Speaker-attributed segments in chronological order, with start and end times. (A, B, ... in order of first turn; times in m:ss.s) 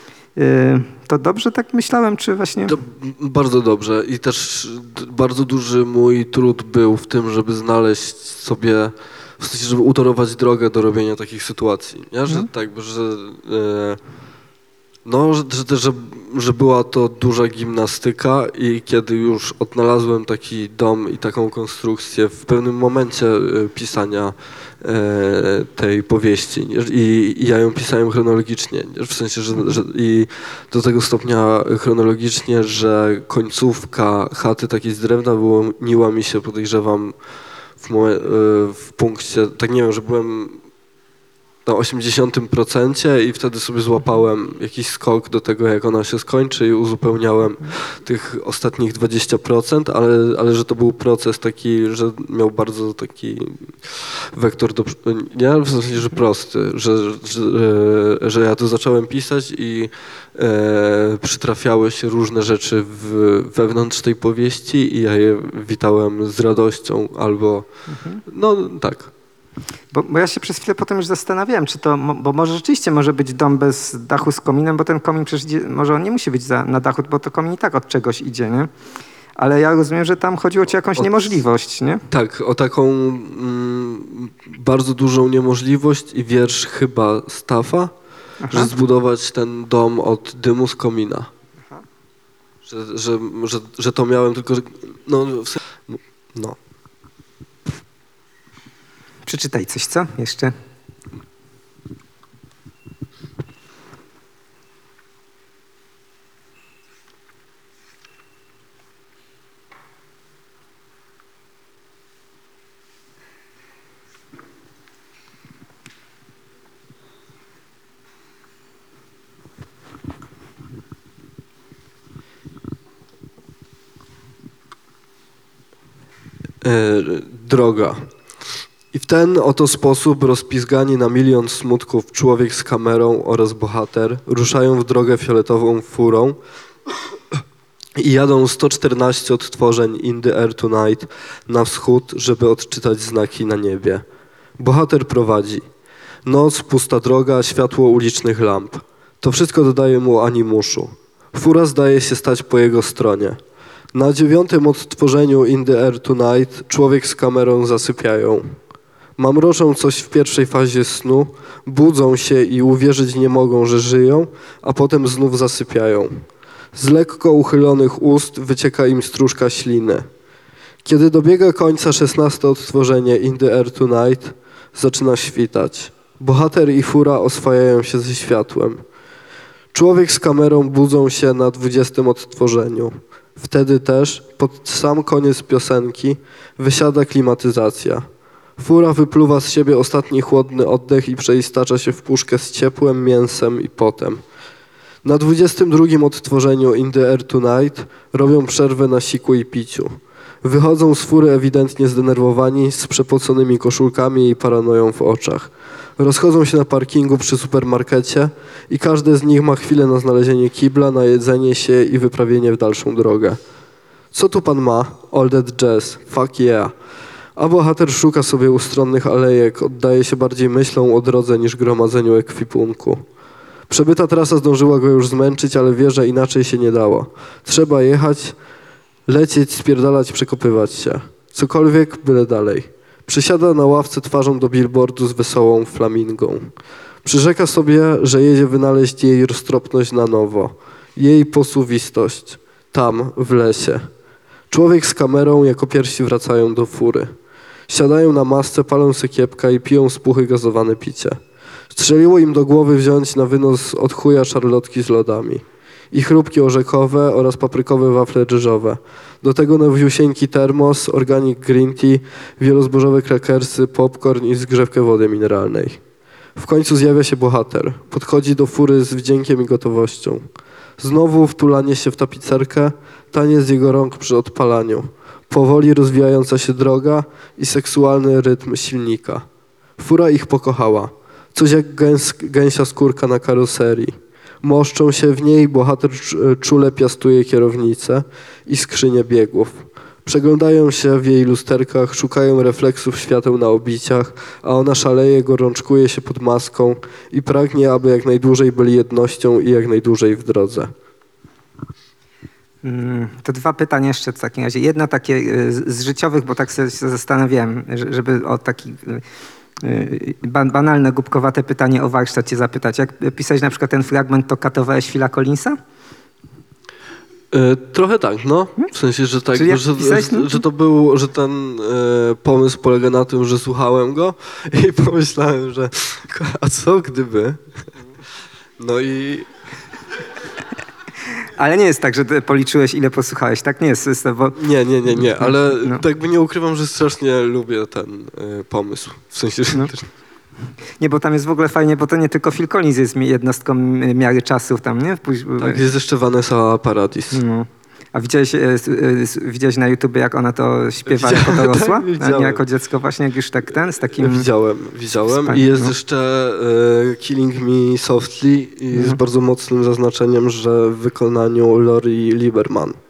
0:00.4-0:02.8 A
0:02.6-0:14.0 B
0:15.0-0:37.1 B
0:37.8-0:40.6 B
0:41.6-1:07.6 B
1:07.9-1:08.2 A
1:08.2-1:09.1 B
1:09.9-1:18.7 A
1:19.4-1:22.0 A
1:20.9-1:21.4 B
1:22.1-1:27.9 B
1:28.4-1:28.7 A
1:28.5-1:31.3 B
1:32.6-1:36.6 B
1:39.2-1:40.5 A
2:06.6-2:08.1 B
2:08.9-2:16.4 B
2:18.0-2:24.0 B
2:24.6-2:25.6 B
2:26.2-2:33.4 B
2:33.9-2:38.6 B
2:39.2-2:50.1 B
2:50.8-2:58.8 B
2:59.7-3:08.1 B
3:08.6-3:14.2 B
3:15.0-3:33.4 B
3:34.1-3:36.7 B
3:37.4-3:43.0 B
3:43.7-3:48.3 B
3:49.1-3:56.5 B
3:57.0-4:03.9 B
4:04.5-4:07.1 B
4:07.7-4:25.8 B
4:26.4-4:30.3 B
4:30.8-4:39.2 B
4:39.8-5:00.7 B
5:02.6-5:09.0 A
5:09.6-5:15.6 A
5:17.3-5:27.7 B
5:19.3-5:20.4 A
5:28.6-5:29.3 B
5:31.3-5:34.4 A
5:34.3-5:39.9 B
5:34.9-5:35.8 A
5:40.8-5:45.6 A
5:45.4-5:47.2 B
5:47.1-5:54.3 A
5:50.9-5:52.4 B
5:53.9-6:02.8 B
5:55.1-5:55.7 A
5:58.7-5:59.0 A